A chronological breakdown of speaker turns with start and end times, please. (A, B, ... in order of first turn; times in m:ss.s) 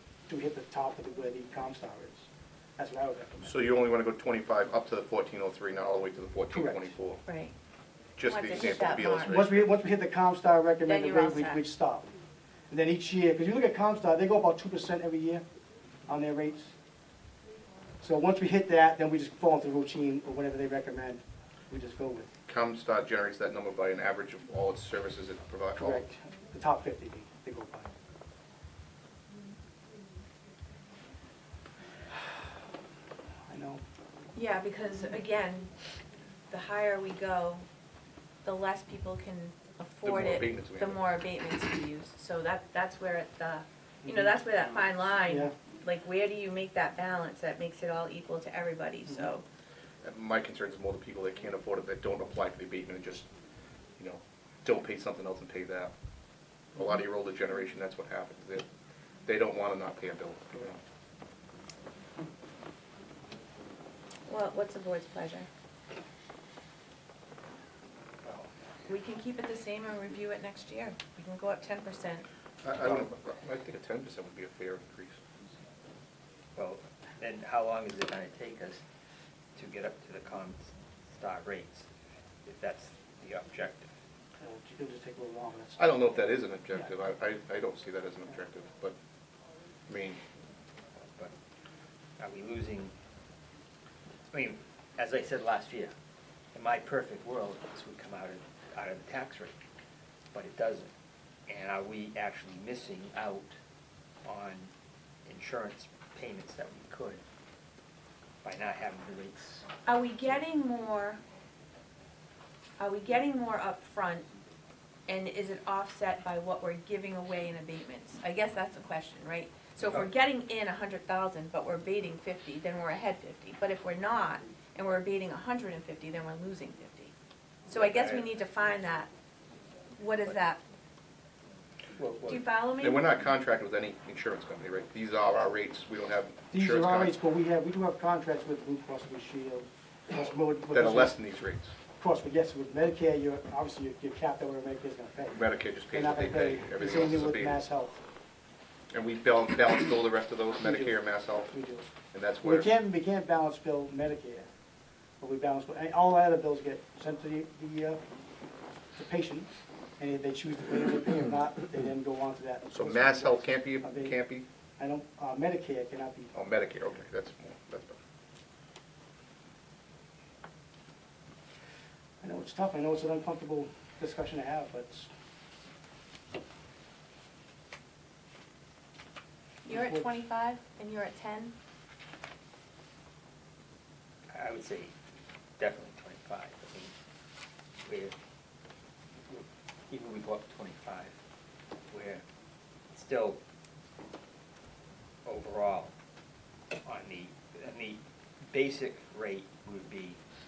0:00.3-0:03.5 A
0:03.4-0:07.2 B
0:06.5-0:06.9 A
0:07.2-0:07.5 C
0:08.2-0:09.6 B
0:08.3-0:09.4 C
0:09.2-0:12.1 A
0:10.8-0:11.6 C
0:12.7-0:15.4 A
0:16.1-0:16.7 A
0:18.0-0:22.3 A
0:22.5-0:26.0 B
0:25.8-0:27.9 A
0:32.1-0:32.5 A
0:33.5-0:33.8 A
0:34.3-0:35.7 C
0:36.5-0:37.6 C
0:38.4-0:49.4 C
0:40.0-0:41.0 B
0:44.0-0:45.5 A
0:50.0-0:53.3 B
0:54.0-0:55.9 B
0:56.7-0:58.6 B
0:59.2-1:00.8 B
1:04.3-1:05.5 C
1:08.9-1:12.2 C
1:12.6-1:15.2 B
1:16.6-1:18.8 D
1:19.6-1:21.9 D
1:22.4-1:23.9 D
1:24.4-1:25.9 A
1:25.8-1:29.0 B
1:29.9-1:30.2 B
1:32.2-1:32.9 D
1:34.3-1:35.9 D
1:36.5-1:39.6 D
1:40.3-1:40.9 D
1:41.5-1:43.5 D
1:44.2-1:44.7 D
1:45.2-1:47.2 D
1:48.4-1:49.7 D
1:49.8-1:51.2 C
1:52.8-1:54.3 C
1:55.1-2:07.1 C
2:07.7-2:09.1 C
2:07.7-2:08.3 D
2:10.0-2:10.6 C
2:12.0-2:12.5 D
2:12.3-2:13.0 C
2:12.8-2:17.2 B
2:16.5-2:21.2 A
2:20.7-2:21.7 B
2:22.0-2:28.0 A
2:25.3-2:27.6 B
2:28.9-2:31.5 B
2:30.6-2:31.8 A
2:32.1-2:32.7 B
2:32.4-2:34.5 A
2:35.2-2:38.0 A
2:38.9-2:44.2 A
2:42.7-2:44.4 B
2:44.8-2:46.4 A
2:46.3-2:48.0 B
2:52.2-2:55.1 A
2:59.6-3:01.5 C
2:59.7-3:00.0 A
3:04.3-3:04.9 D
3:05.6-3:06.9 D
3:07.8-3:08.1 D
3:09.2-3:11.1 D
3:11.9-3:12.2 D
3:12.9-3:13.4 D
3:15.2-3:15.9 D
3:16.8-3:20.2 D